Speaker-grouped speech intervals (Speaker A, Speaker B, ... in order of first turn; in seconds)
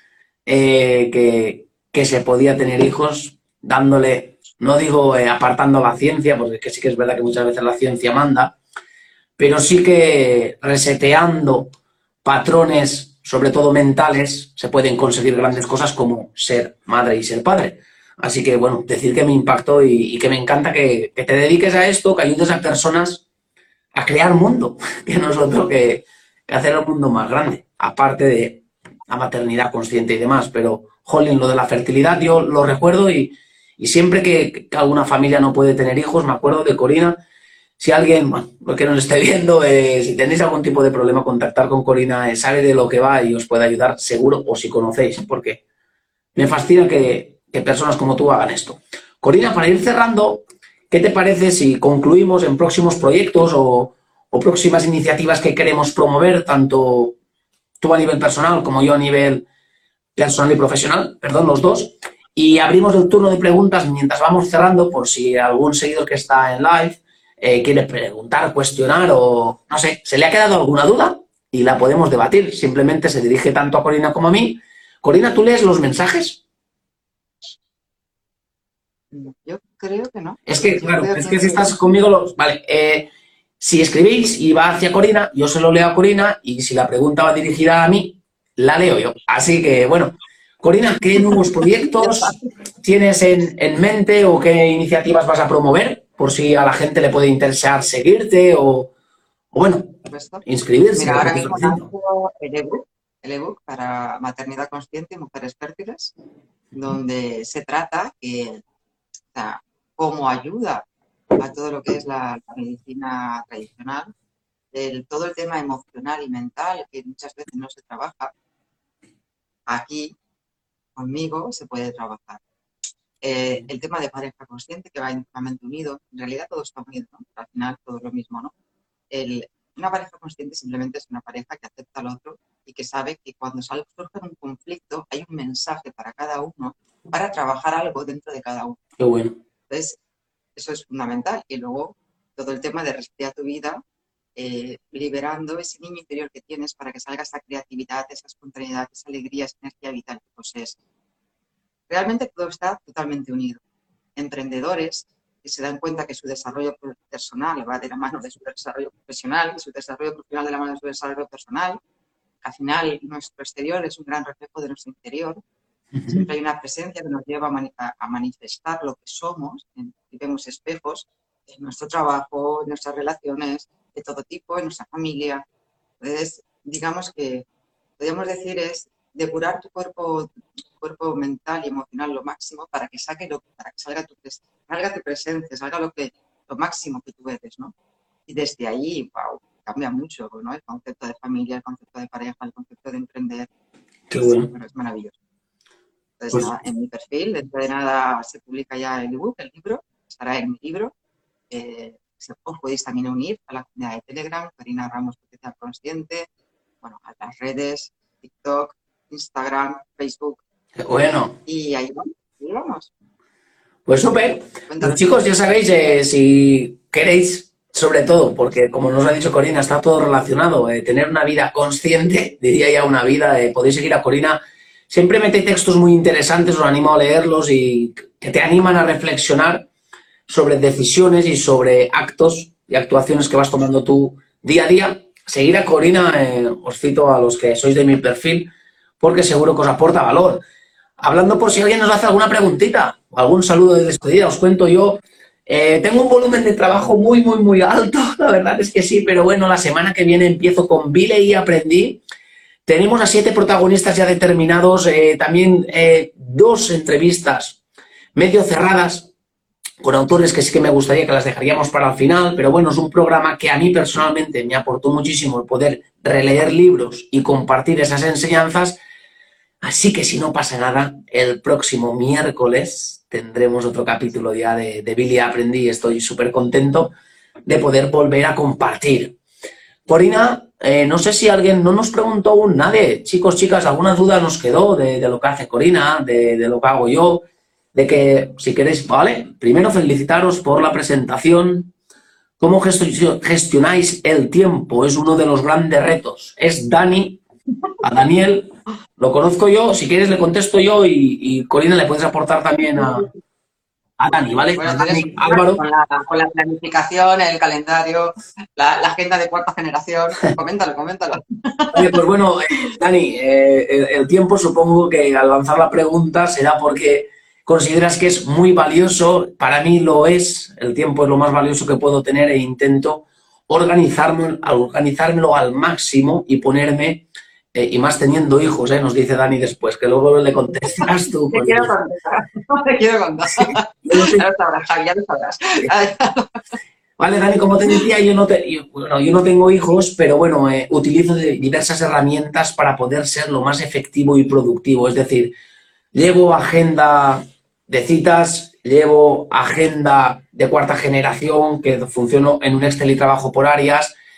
Speaker A: 0.5-8.5, 9.4-11.7, 12.2-23.2, 23.9-37.2, 37.8-45.6, 46.3-57.1, 57.8-59.4, 60.1-76.4, 80.5-83.1, 83.6-98.9, 99.5-101.9, 139.0-139.4, 165.9-166.3, 194.1-194.5, 210.8-211.4, 213.8-229.7, 230.3-238.5, 239.0-240.4, 241.0-252.0, 252.7-257.6, 258.1-259.1, 259.8-268.8, 269.6-276.9, 277.4-279.1, 279.9-291.7, 292.4-297.2, 297.8-303.1, 304.0-305.6, 311.7-331.7, 333.5-334.2, 337.0-345.3, 345.9-353.9
Speaker B: 79.1-81.7, 91.8-92.3, 100.1-100.4, 101.0-106.1, 106.7-108.6, 109.3-110.8, 111.4-114.1, 114.7-118.3, 119.7-120.1, 121.0-122.4, 123.2-128.5, 129.1-138.9, 139.7-140.0, 140.6-143.8, 144.3-150.8, 151.9-153.6, 154.2-161.8, 162.4-165.4, 166.1-175.4, 176.0-177.4, 178.0-187.7, 188.3-193.5, 194.2-195.2, 196.2-200.9, 201.5-206.3, 206.8-210.4, 211.4-212.9, 214.7-215.0, 302.7-303.1, 304.6-312.0, 331.3-336.3